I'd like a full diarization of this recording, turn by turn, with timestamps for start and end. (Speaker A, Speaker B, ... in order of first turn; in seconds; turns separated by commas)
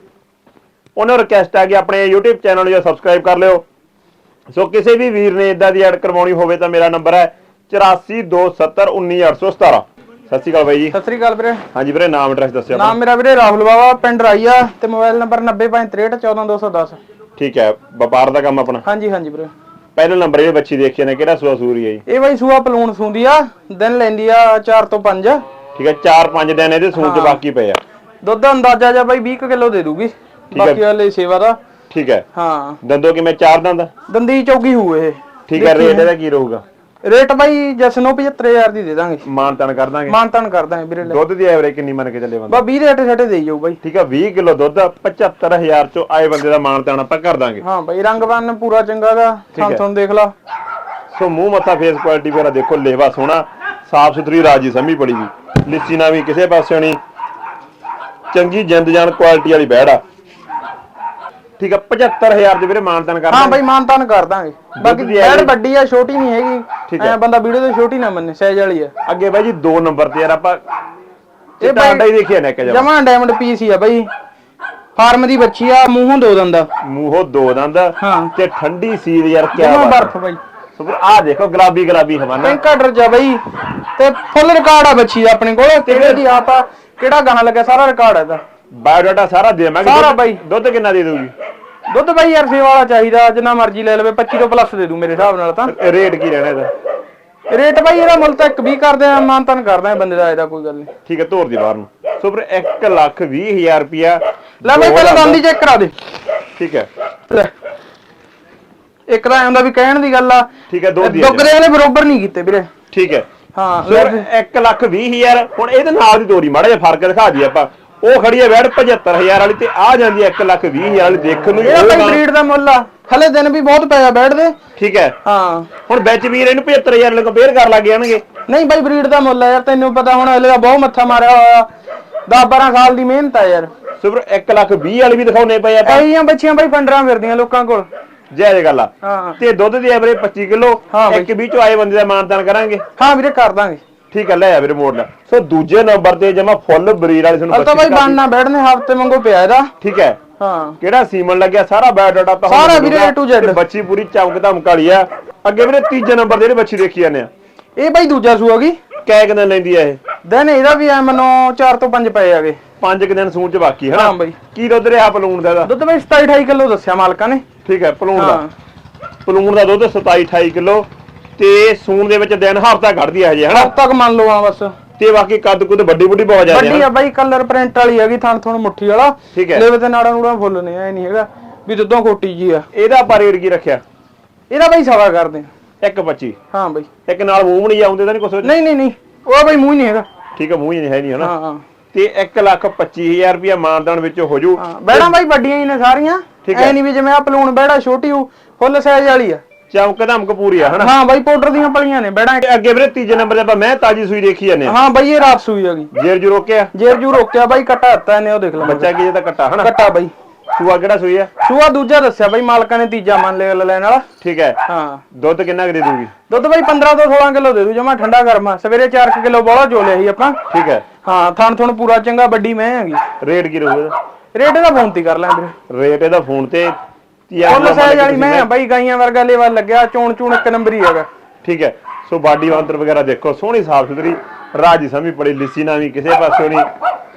Speaker A: 1.0-3.6, Speaker A: 4.5-10.9, Speaker B: 10.9-11.6, Speaker A: 11.7-13.0, Speaker B: 12.7-17.0, Speaker A: 17.4-18.8, Speaker B: 18.9-19.5, Speaker A: 20.0-22.0, Speaker B: 22.1-25.4, Speaker A: 25.8-27.8, Speaker B: 27.0-27.4, Speaker B: 28.2-31.6, Speaker A: 30.5-30.8, Speaker A: 31.9-32.2, Speaker B: 32.4-32.8, Speaker A: 32.8-33.9, Speaker B: 34.1-36.1, Speaker A: 35.5-36.6, Speaker B: 37.0-39.2, Speaker A: 39.2-40.2, Speaker B: 40.1-41.2, Speaker A: 41.0-42.6, Speaker B: 42.5-43.8, Speaker A: 43.8-47.6, Speaker B: 47.6-50.3, Speaker A: 49.5-49.8, Speaker A: 51.1-57.0, Speaker A: 58.3-60.0, Speaker A: 61.6-63.6, Speaker B: 63.3-68.9, Speaker A: 64.8-65.5, Speaker A: 66.9-67.2, Speaker A: 69.1-70.6, Speaker A: 71.6-72.9, Speaker B: 71.6-72.1, Speaker B: 72.6-74.1, Speaker B: 75.0-76.7, Speaker A: 76.8-80.1, Speaker B: 78.0-78.3, Speaker B: 79.6-80.4, Speaker A: 80.8-82.6, Speaker B: 82.4-88.4, Speaker A: 85.9-86.2, Speaker A: 88.7-91.3, Speaker B: 89.8-90.4, Speaker B: 91.9-95.7, Speaker A: 95.7-96.7, Speaker B: 97.5-100.9, Speaker A: 101.1-105.4, Speaker B: 104.6-105.9, Speaker A: 106.6-106.9, Speaker B: 109.1-110.5, Speaker A: 110.7-111.5, Speaker B: 111.0-112.7, Speaker A: 112.9-113.3, Speaker B: 113.5-114.3, Speaker A: 113.8-122.2, Speaker B: 121.6-124.6, Speaker A: 124.8-125.2, Speaker B: 125.2-125.7, Speaker A: 125.9-128.2, Speaker B: 128.5-131.7, Speaker B: 132.3-133.7, Speaker A: 134.0-136.1, Speaker B: 135.8-137.9, Speaker A: 138.3-142.8, Speaker B: 139.0-139.4, Speaker B: 140.9-141.3, Speaker B: 143.0-143.8, Speaker A: 144.1-148.2, Speaker B: 147.5-149.7, Speaker A: 149.8-150.2, Speaker B: 150.4-150.8, Speaker A: 150.8-157.3, Speaker B: 152.5-153.6, Speaker B: 157.8-158.8, Speaker A: 159.1-160.0, Speaker B: 160.2-162.6, Speaker A: 162.8-165.7, Speaker B: 163.9-164.4, Speaker B: 165.7-167.4, Speaker A: 167.7-168.4, Speaker B: 168.2-168.5, Speaker A: 169.3-173.7, Speaker B: 173.5-174.7, Speaker A: 175.0-176.9, Speaker B: 176.5-182.7, Speaker A: 179.3-179.7, Speaker A: 182.7-183.8, Speaker B: 184.5-185.5, Speaker A: 185.8-186.4, Speaker B: 186.5-186.9, Speaker A: 187.1-188.5, Speaker B: 188.4-190.1, Speaker A: 190.4-191.3, Speaker B: 191.2-191.6, Speaker A: 191.9-195.1, Speaker B: 194.6-199.4, Speaker A: 196.4-196.8, Speaker A: 199.7-200.9, Speaker B: 200.8-202.4, Speaker A: 202.4-204.8, Speaker B: 204.7-205.9, Speaker A: 205.9-206.7, Speaker B: 206.7-208.9, Speaker A: 208.6-209.7, Speaker B: 209.6-210.1, Speaker A: 210.5-211.3, Speaker B: 211.4-214.1, Speaker A: 214.2-214.6, Speaker B: 214.7-215.0, Speaker A: 215.1-216.1, Speaker B: 216.3-220.4, Speaker A: 220.5-220.8, Speaker B: 221.0-223.0, Speaker A: 223.2-223.9, Speaker B: 224.3-225.5, Speaker A: 225.7-226.8, Speaker A: 227.3-228.5, Speaker B: 227.4-231.1, Speaker A: 231.4-236.7